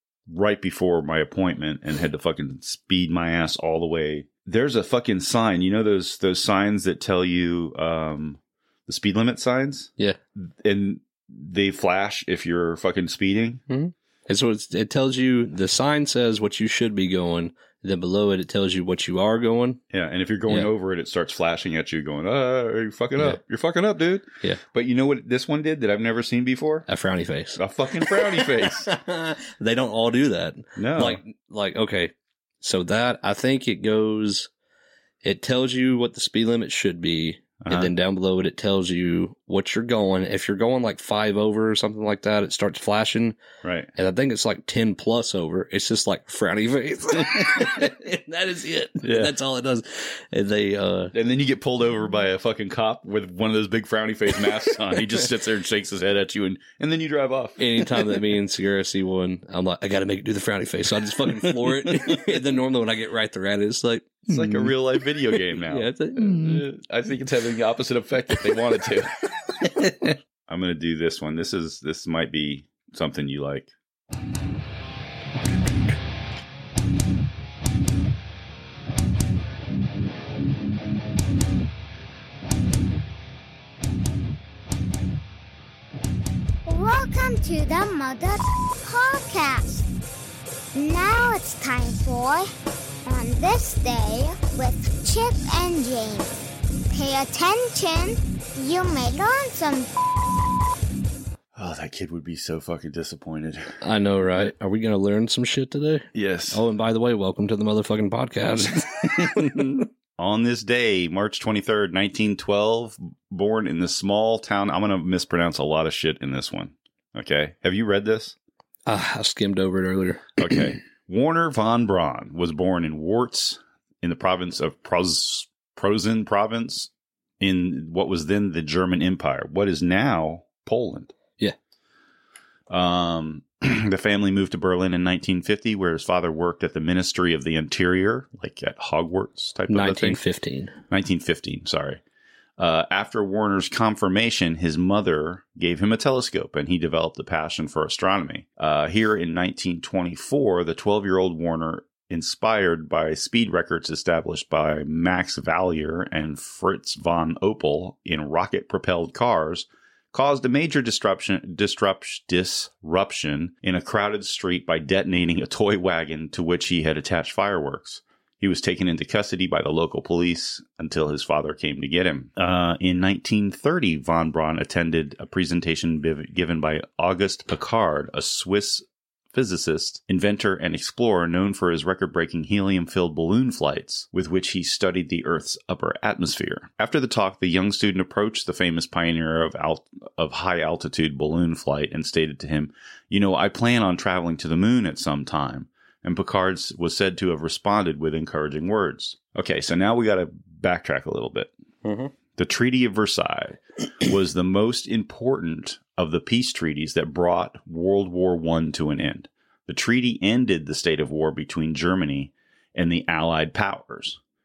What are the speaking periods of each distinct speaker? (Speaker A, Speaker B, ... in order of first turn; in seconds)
Speaker A: 0.3-13.6, 19.9-26.9, 27.6-28.9, 30.8-31.2, 37.6-37.9, 43.6-43.9, 47.4-47.9, 49.0-49.3, 51.1-58.3, 61.3-62.5, 64.3-73.7, 101.5-103.8, 106.1-106.6, 109.2-118.4, 120.4-131.1, 132.7-140.2, 140.9-142.0, 142.6-201.5, 202.3-214.2
Speaker B: 13.7-19.8, 26.9-34.5, 35.2-43.4, 44.0-51.1, 57.6-64.8, 65.3-66.7, 103.8-109.8, 118.9-120.4, 139.7-140.8, 201.8-202.1
Speaker C: 86.7-89.9, 90.7-92.5, 93.0-96.3, 96.9-100.5